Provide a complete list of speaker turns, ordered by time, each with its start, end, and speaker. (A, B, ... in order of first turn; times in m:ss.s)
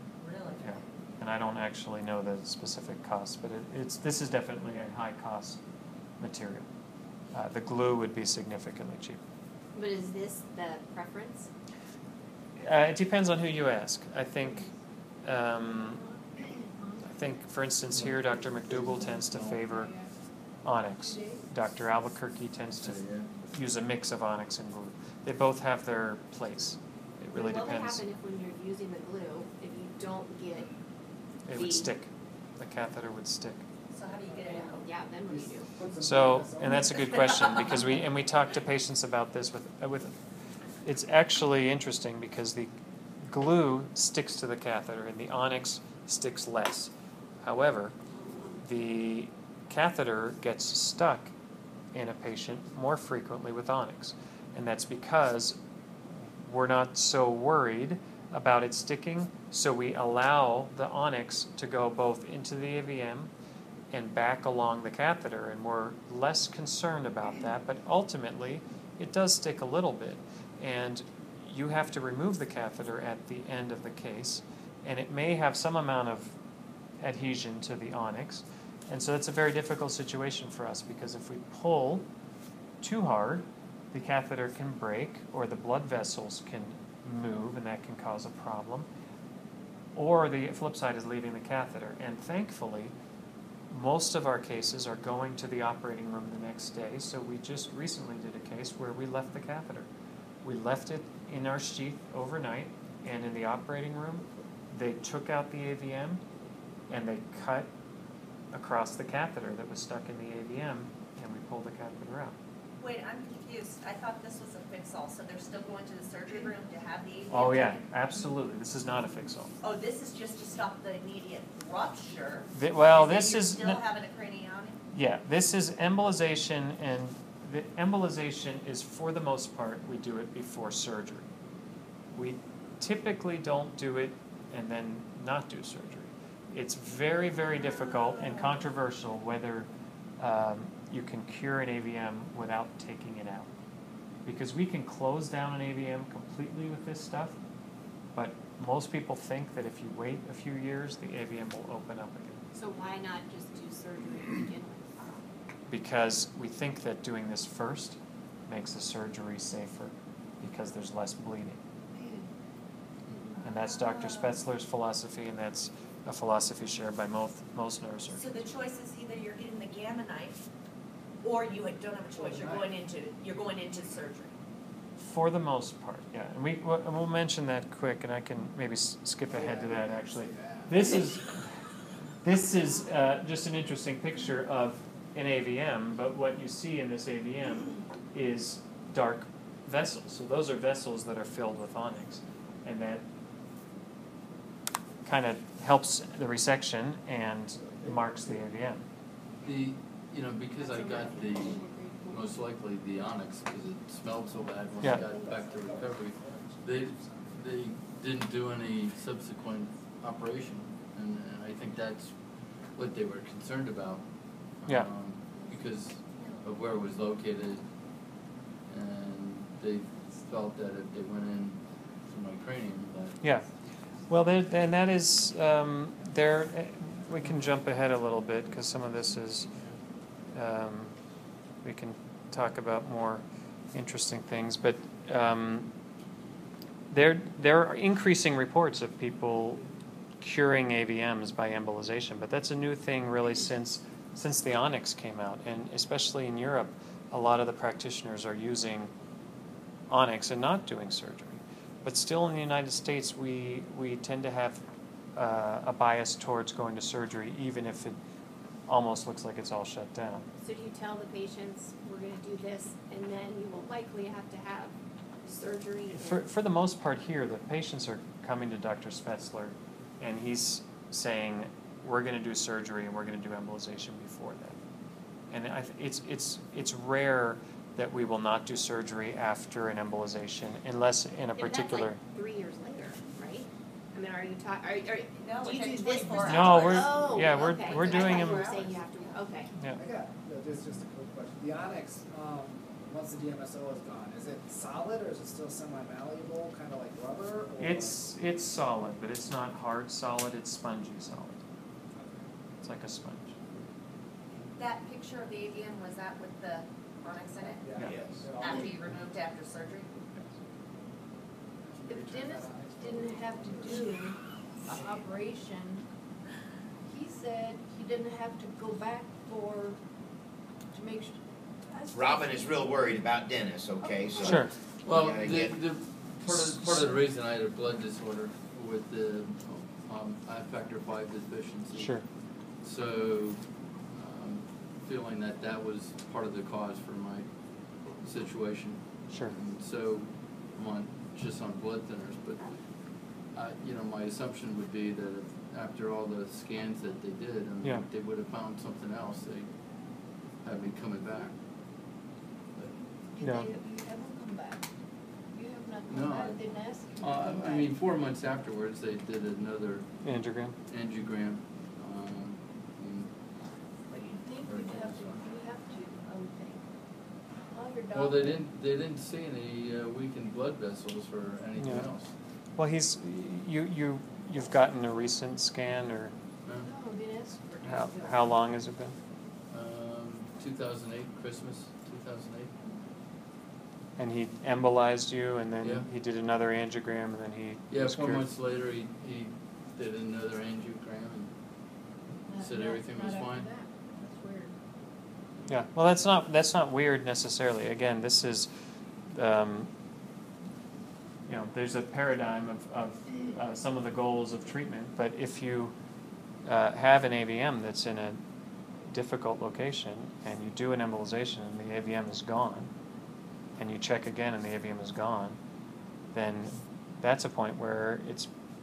0:00.2-0:00.8 A
0:00.6-0:05.6 B
0:06.2-0:06.7 B
0:07.3-0:09.2 B
0:09.7-0:11.5 C
0:12.6-0:14.7 B
0:14.4-0:14.7 D
0:15.2-0:16.0 B
0:16.0-0:17.1 D
0:17.0-0:19.9 B
0:17.9-0:19.6 E
0:19.6-0:20.1 D
0:20.6-0:28.0 B
0:21.0-0:21.4 D
0:22.8-0:23.3 E
0:27.3-0:30.7 C
0:31.4-0:33.6 B
0:31.5-0:31.9 C
0:33.9-0:34.9 A
0:34.5-0:35.7 C
0:35.2-0:37.6 F
0:36.0-0:40.1 B
0:40.8-0:42.7 B
0:43.3-0:46.9 B
0:47.4-0:47.9 B
0:48.6-0:51.3 B
0:51.9-0:55.6 B
0:56.4-1:03.3 B
1:03.9-1:16.4 B
1:17.0-1:22.0 B
1:22.8-1:28.9 B
1:30.0-1:32.9 B
1:33.7-1:39.9 B
1:40.4-1:46.2 B
1:46.9-1:47.7 B
1:48.5-1:52.4 B
1:52.8-1:57.8 A
1:57.3-1:59.5 B
1:59.6-2:04.8 A
2:02.5-2:03.8 B
2:04.9-2:11.3 B
2:12.1-2:19.7 B
2:20.2-2:23.5 B
2:24.2-2:27.4 B
2:28.1-2:32.4 B
2:32.5-2:35.3 C
2:35.7-2:41.6 B
2:43.4-2:48.3 B
2:48.1-2:50.4 A
2:51.2-2:54.3 A
2:52.1-2:52.7 F
2:55.0-3:01.5 B
2:59.3-3:01.0 F
3:02.2-3:13.0 B
3:15.0-3:18.8 B
3:17.7-3:18.4 F
3:19.4-3:38.1 E
3:20.6-3:22.2 C
3:24.6-3:27.4 F
3:38.6-3:43.2 E
3:43.2-3:43.5 B
3:44.1-3:49.5 B
3:50.3-3:51.0 B
3:51.6-3:55.7 B
3:56.9-3:59.6 B
4:00.2-4:08.9 B
4:09.9-4:14.6 B
4:15.2-4:18.0 B
4:18.7-4:20.2 B
4:20.4-4:24.7 C
4:25.2-4:26.2 C
4:25.9-4:34.6 B
4:35.3-4:42.0 B
4:41.3-4:49.5 C
4:45.2-4:49.2 A
4:46.2-4:48.5 B
4:49.5-4:49.8 B
4:49.7-4:58.0 F
4:57.6-5:01.4 B
5:01.9-5:02.2 F
5:02.6-5:03.5 B
5:04.5-5:09.9 A
5:07.4-5:08.8 F
5:07.8-5:08.6 B
5:07.8-5:08.1 G
5:11.7-5:14.0 F
5:11.9-5:15.8 D
5:14.7-5:14.9 F
5:16.9-5:19.8 D
5:20.7-5:21.2 D
5:21.8-5:22.5 D
5:21.9-5:25.8 G
5:24.2-5:49.6 E
5:24.2-5:24.5 B
5:31.8-5:32.0 B
5:39.1-5:39.3 B
5:50.4-5:51.4 E
5:53.1-5:54.7 D
5:53.2-5:53.5 B
5:55.3-5:57.7 D
5:55.9-6:03.1 E
6:00.0-6:00.6 B
6:03.9-6:06.7 D
6:04.4-6:05.2 E
6:07.5-6:08.4 D
6:07.9-6:12.1 E
6:11.6-6:11.9 B
6:12.6-6:16.1 B
6:16.6-6:18.4 D
6:17.6-6:19.0 B
6:19.5-6:22.5 E
6:24.0-6:28.3 B
6:25.6-6:25.9 E
6:27.7-6:31.3 E
6:32.2-6:34.5 D
6:32.4-6:33.5 E
6:35.5-6:38.5 B
6:39.1-6:39.7 B
6:41.3-6:45.7 B
6:46.4-6:48.2 B
6:48.9-6:52.7 B
6:53.6-6:55.4 B
6:56.1-6:58.3 B